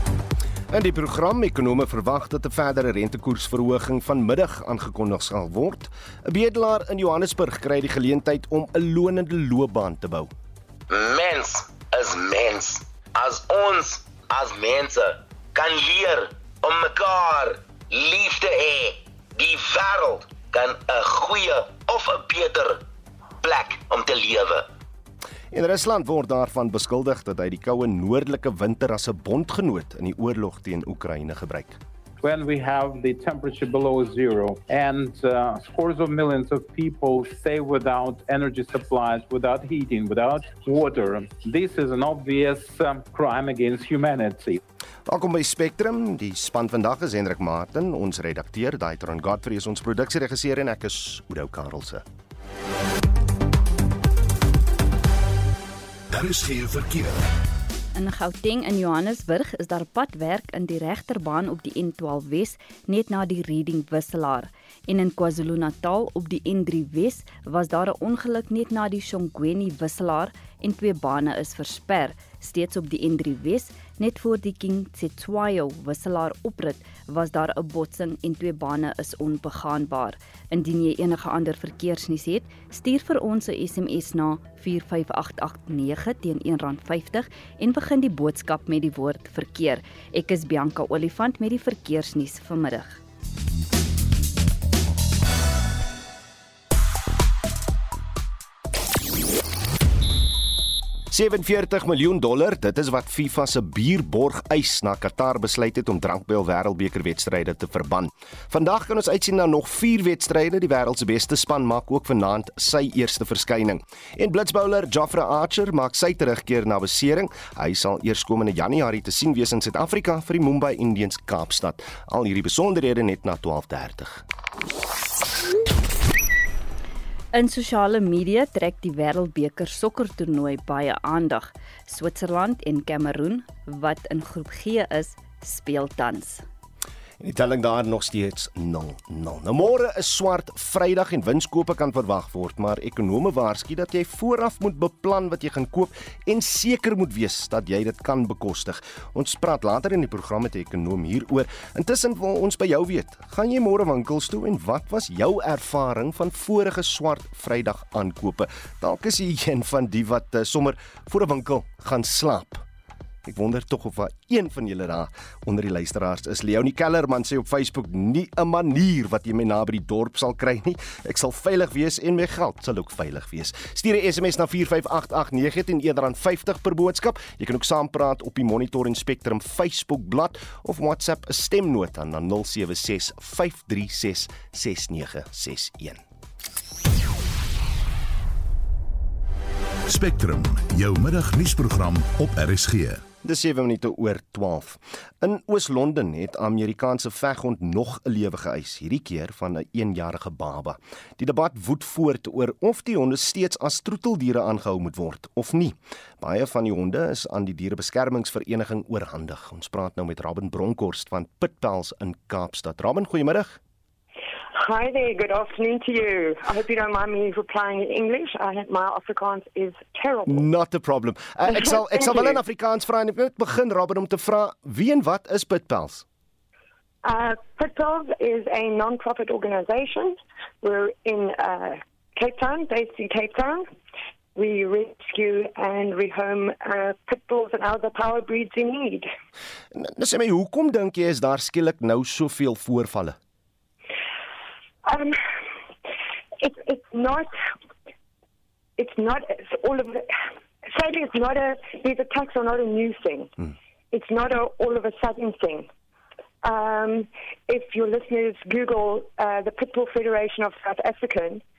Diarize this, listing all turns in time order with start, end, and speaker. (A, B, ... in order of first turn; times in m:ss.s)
0:00.7-0:10.3 A
0:10.9-0:22.8 B
0:23.4-0:24.7 B
0:25.5-0:31.8 A
0:32.2-0:38.0 C
0:38.6-0:39.8 C
0:42.8-0:43.2 C
0:45.0-0:52.0 A
0:56.1-0:57.3 D
0:57.9-1:33.0 E
1:41.1-2:04.2 A
2:07.3-2:16.4 E
2:17.2-2:42.6 A
2:43.2-3:06.0 A
3:09.9-3:13.0 D
3:13.2-3:33.6 A
3:34.5-3:40.5 F
3:40.3-3:46.0 A
3:41.5-3:42.4 F
3:47.0-3:53.7 F
3:54.3-3:59.1 F
3:59.7-4:03.2 A
4:04.8-4:05.2 F
4:06.4-4:07.3 F
4:08.8-4:10.1 F
4:10.6-4:13.3 F
4:13.9-4:15.7 F
4:16.4-4:21.4 F